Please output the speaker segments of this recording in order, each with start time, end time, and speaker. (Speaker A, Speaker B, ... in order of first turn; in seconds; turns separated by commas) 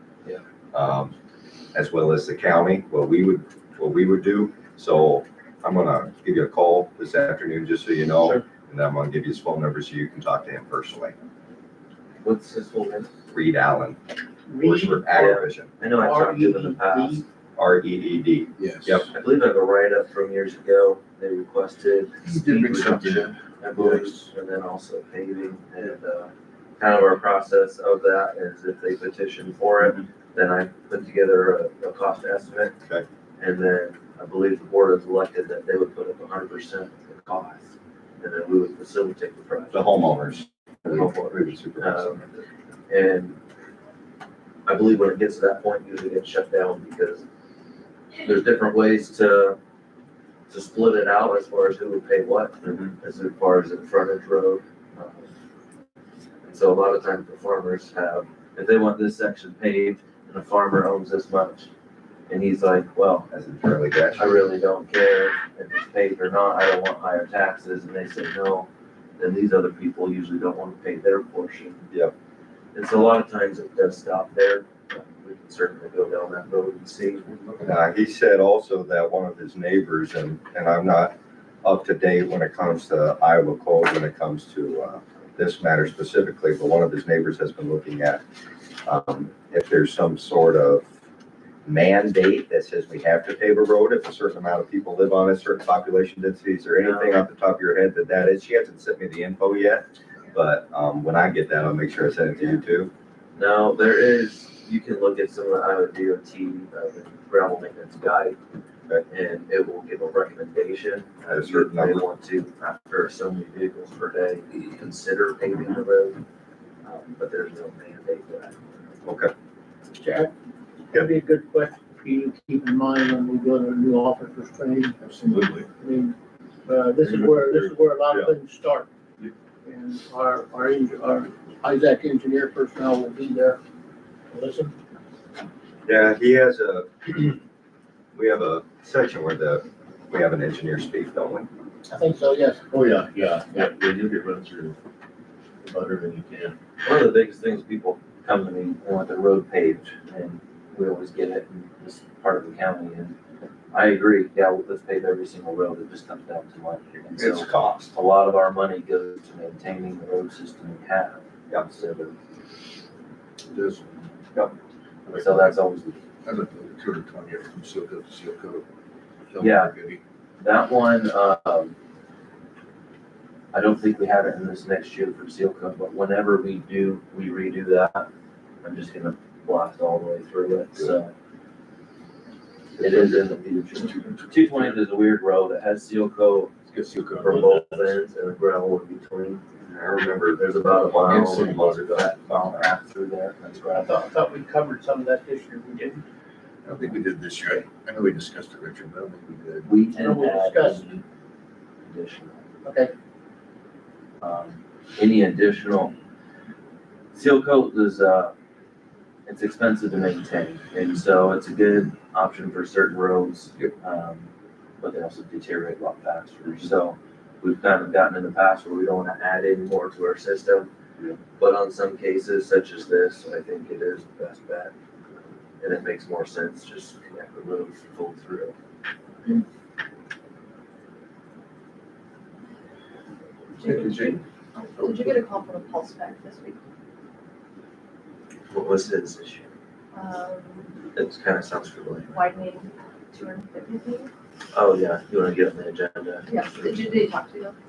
Speaker A: 0.7-1.1, Speaker A: 1.8-11.1, Speaker B: 12.2-13.1, Speaker A: 13.3-14.0, Speaker C: 14.5-15.3, Speaker A: 14.6-15.7, Speaker B: 15.2-17.2, Speaker C: 15.9-17.2, Speaker A: 17.6-19.1, Speaker D: 18.6-19.1, Speaker B: 19.1-32.8, Speaker D: 22.2-24.3, Speaker B: 33.4-37.6, Speaker B: 38.2-40.1, Speaker A: 39.7-42.2, Speaker B: 40.9-43.4, Speaker B: 44.7-47.2, Speaker B: 48.2-49.6, Speaker B: 50.5-55.3, Speaker B: 56.5-61.7, Speaker B: 62.3-63.3, Speaker A: 63.3-64.4, Speaker B: 64.2-71.8, Speaker B: 72.7-77.2, Speaker D: 77.2-77.8, Speaker A: 77.6-88.2, Speaker A: 88.8-90.9, Speaker A: 91.7-102.9, Speaker B: 96.8-97.3, Speaker B: 103.4-108.4, Speaker B: 109.1-116.2, Speaker A: 111.3-112.0, Speaker B: 116.8-119.0, Speaker A: 119.0-119.3, Speaker A: 120.0-120.3, Speaker C: 120.9-126.2, Speaker D: 125.0-125.7, Speaker C: 126.7-128.9, Speaker A: 127.0-128.3, Speaker C: 129.7-133.6, Speaker C: 134.3-134.7, Speaker A: 135.9-137.4, Speaker A: 138.2-141.5, Speaker C: 141.9-142.6, Speaker E: 142.7-144.7, Speaker D: 142.8-143.9, Speaker E: 145.7-146.5, Speaker D: 145.7-146.3, Speaker B: 146.8-153.2, Speaker B: 153.7-162.2, Speaker A: 157.2-157.9, Speaker D: 163.5-164.1, Speaker D: 165.1-165.7, Speaker B: 165.1-166.0, Speaker D: 166.2-168.7, Speaker D: 169.3-170.0, Speaker B: 169.4-169.7, Speaker B: 170.4-171.8, Speaker B: 173.5-178.1, Speaker B: 178.6-181.1, Speaker B: 182.8-186.6, Speaker D: 183.9-184.6, Speaker D: 186.7-187.7, Speaker B: 187.2-189.4, Speaker A: 189.6-192.7, Speaker B: 190.3-194.1, Speaker D: 191.1-191.9, Speaker C: 193.8-196.0, Speaker D: 196.7-199.7, Speaker B: 199.7-201.0, Speaker C: 199.9-200.9, Speaker B: 201.8-202.4, Speaker C: 202.7-202.9, Speaker B: 204.2-205.9, Speaker B: 207.1-208.3, Speaker B: 209.3-214.3, Speaker B: 214.8-220.7, Speaker B: 221.4-224.7, Speaker B: 225.6-228.6, Speaker F: 233.6-236.6, Speaker D: 233.6-234.2, Speaker D: 234.8-235.2, Speaker B: 238.5-239.5, Speaker F: 239.9-240.7, Speaker B: 240.9-242.2, Speaker F: 242.1-244.1, Speaker B: 244.5-246.9, Speaker F: 246.3-247.6